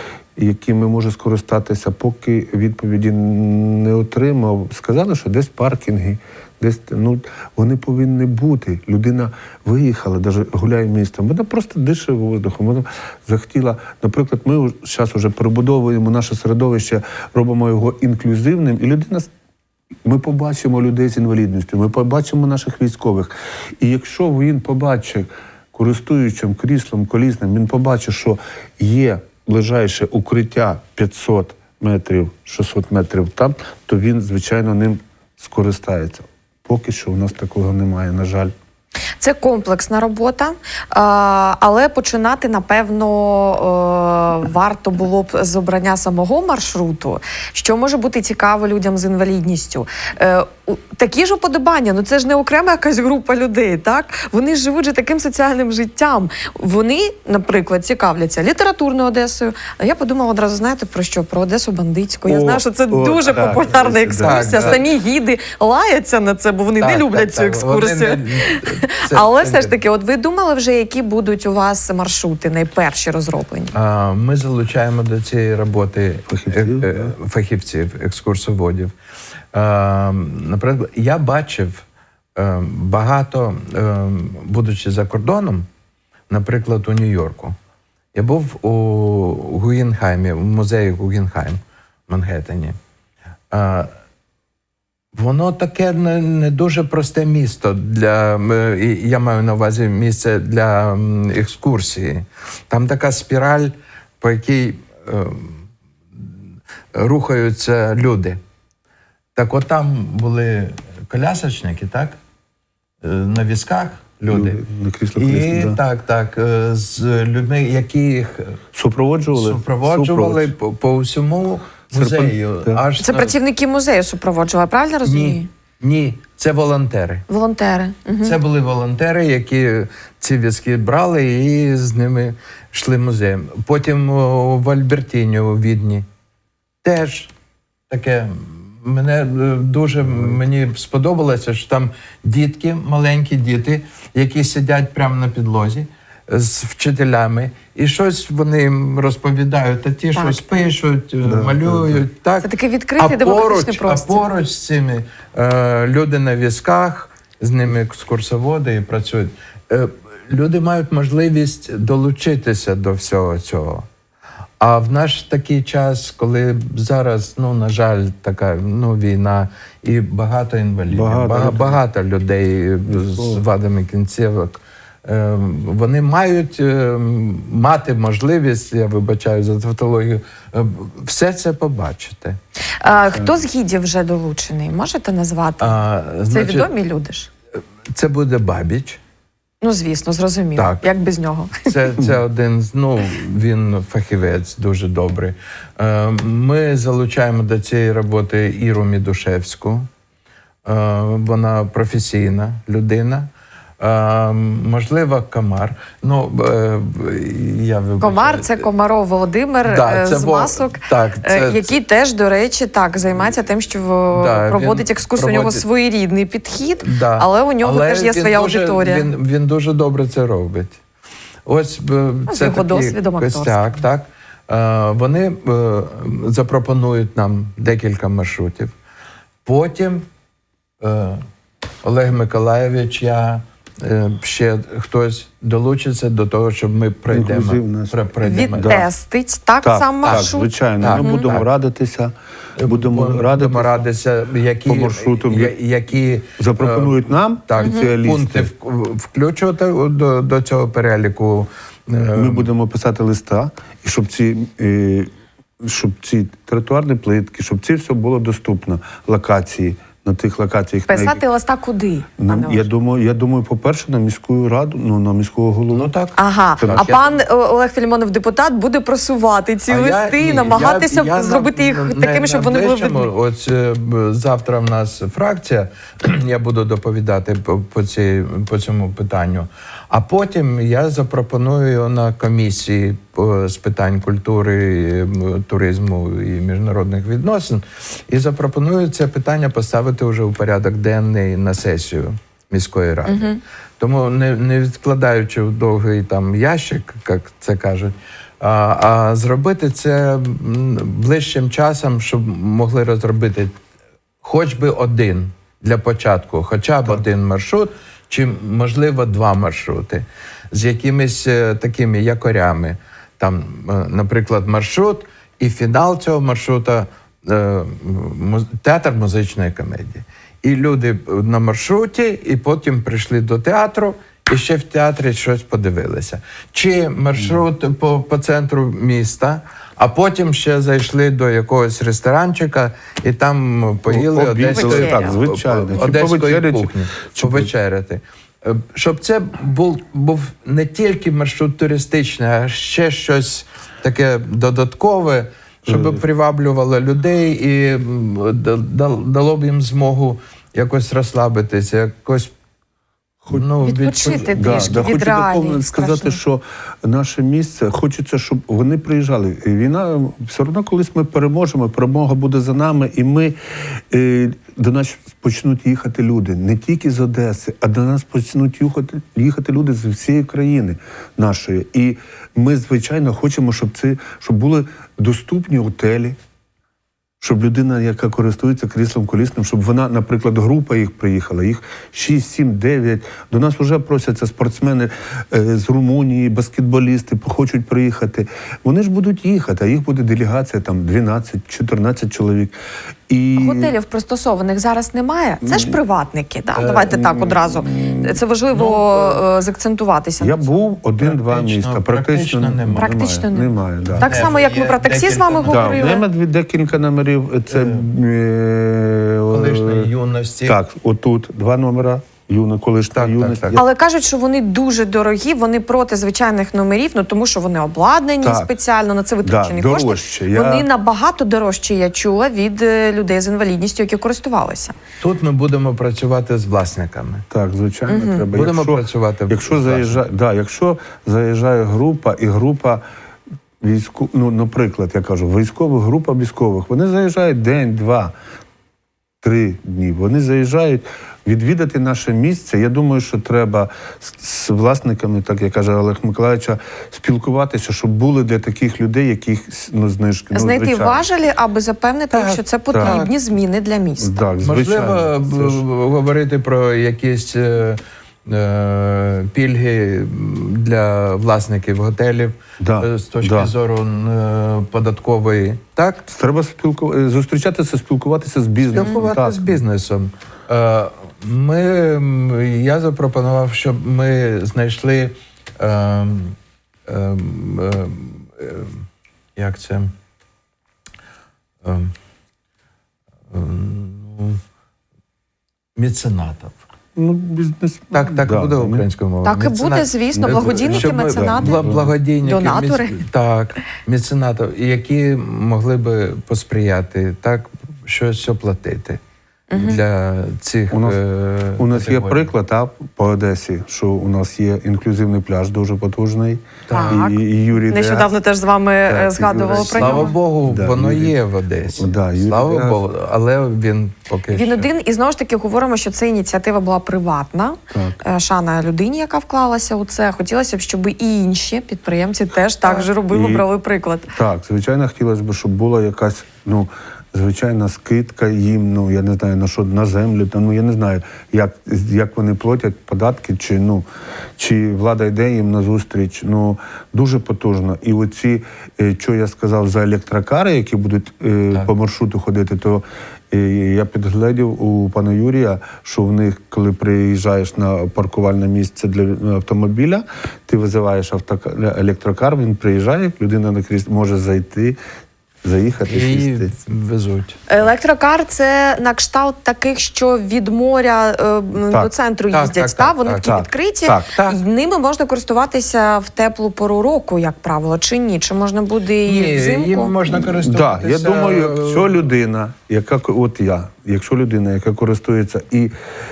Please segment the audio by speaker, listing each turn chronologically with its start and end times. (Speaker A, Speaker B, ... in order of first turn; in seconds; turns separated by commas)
Speaker A: 0.3-19.3, Speaker A: 20.0-38.5, Speaker B: 39.2-73.7, Speaker A: 62.2-64.8, Speaker C: 63.4-64.8, Speaker C: 66.8-69.8, Speaker C: 73.7-78.9, Speaker A: 76.3-77.1, Speaker C: 79.5-81.8, Speaker C: 82.3-85.7, Speaker C: 86.3-87.5, Speaker C: 88.1-92.8, Speaker C: 93.5-93.9, Speaker C: 95.1-105.6, Speaker C: 106.9-108.4, Speaker C: 109.3-112.2, Speaker C: 113.0-114.6, Speaker A: 114.3-115.8, Speaker C: 115.2-118.6, Speaker A: 118.7-120.5, Speaker C: 119.3-123.3, Speaker A: 121.9-122.8, Speaker B: 123.0-125.5, Speaker C: 125.0-127.3, Speaker B: 127.3-128.4, Speaker C: 128.2-136.0, Speaker C: 136.8-137.3, Speaker C: 137.9-163.8, Speaker B: 150.1-150.4, Speaker A: 151.2-152.0, Speaker B: 152.4-154.2, Speaker C: 164.6-182.4, Speaker A: 170.9-171.8, Speaker A: 172.9-173.4, Speaker B: 182.8-187.3, Speaker C: 185.6-186.7, Speaker C: 187.9-189.0, Speaker B: 189.6-191.7, Speaker C: 190.6-190.8, Speaker C: 191.6-199.9, Speaker C: 200.6-208.7, Speaker B: 208.0-219.1, Speaker C: 209.6-211.7, Speaker C: 214.1-215.6, Speaker C: 216.8-220.8, Speaker C: 221.4-228.7, Speaker B: 222.3-223.8, Speaker C: 229.4-230.1, Speaker C: 230.8-231.2, Speaker C: 231.8-238.8, Speaker A: 237.1-238.9, Speaker B: 238.2-241.2, Speaker A: 239.6-243.9, Speaker C: 240.0-241.5, Speaker C: 242.6-252.5, Speaker A: 244.6-245.5, Speaker A: 246.4-248.5, Speaker A: 252.1-261.2, Speaker B: 260.9-262.7, Speaker A: 262.2-265.9, Speaker C: 265.7-267.2, Speaker B: 266.1-273.1, Speaker A: 266.6-266.9, Speaker C: 269.7-303.6, Speaker B: 293.1-293.4, Speaker C: 304.2-352.3, Speaker A: 333.9-337.5, Speaker B: 334.5-335.2, Speaker A: 345.6-346.0, Speaker C: 353.3-354.9, Speaker B: 353.6-356.2, Speaker A: 354.0-363.3, Speaker A: 363.9-376.1, Speaker A: 377.2-392.5, Speaker A: 393.1-393.7, Speaker B: 393.3-400.6, Speaker A: 395.4-395.7, Speaker A: 396.6-398.8, Speaker A: 400.2-404.3, Speaker C: 401.0-403.1, Speaker B: 402.7-406.0, Speaker C: 403.9-405.9, Speaker A: 405.4-409.9, Speaker C: 407.5-407.8, Speaker C: 409.3-410.6, Speaker A: 410.4-413.6, Speaker C: 412.9-413.6, Speaker B: 413.5-424.7, Speaker A: 418.2-418.5, Speaker A: 419.2-420.7, Speaker C: 425.0-427.2, Speaker A: 427.3-432.8, Speaker B: 427.9-428.2, Speaker C: 428.3-430.0, Speaker A: 433.6-438.1, Speaker A: 439.2-451.0, Speaker B: 450.3-454.2, Speaker C: 452.1-453.1, Speaker A: 452.7-453.0, Speaker A: 454.0-455.6, Speaker C: 454.4-466.0, Speaker A: 462.6-463.5, Speaker A: 466.1-469.6, Speaker C: 468.6-478.8, Speaker C: 479.4-479.9, Speaker C: 481.6-481.9, Speaker C: 483.3-484.4, Speaker C: 485.8-486.6, Speaker A: 486.9-488.9, Speaker C: 487.9-499.0, Speaker B: 489.2-491.7, Speaker A: 490.1-491.9, Speaker B: 492.2-493.0, Speaker B: 499.5-499.8, Speaker C: 499.5-502.3, Speaker A: 500.7-501.0, Speaker A: 501.6-508.1, Speaker C: 506.7-507.0, Speaker B: 506.7-510.1, Speaker A: 508.9-511.1, Speaker C: 509.5-514.7, Speaker A: 511.7-512.8, Speaker B: 514.3-524.1, Speaker A: 517.7-518.0, Speaker A: 523.1-523.5, Speaker A: 524.1-533.8, Speaker A: 534.4-554.8, Speaker A: 555.4-556.5, Speaker C: 555.9-557.4, Speaker B: 557.5-569.9, Speaker C: 562.3-563.5, Speaker A: 563.2-564.1, Speaker C: 564.0-564.4, Speaker C: 569.0-572.0, Speaker A: 570.1-575.7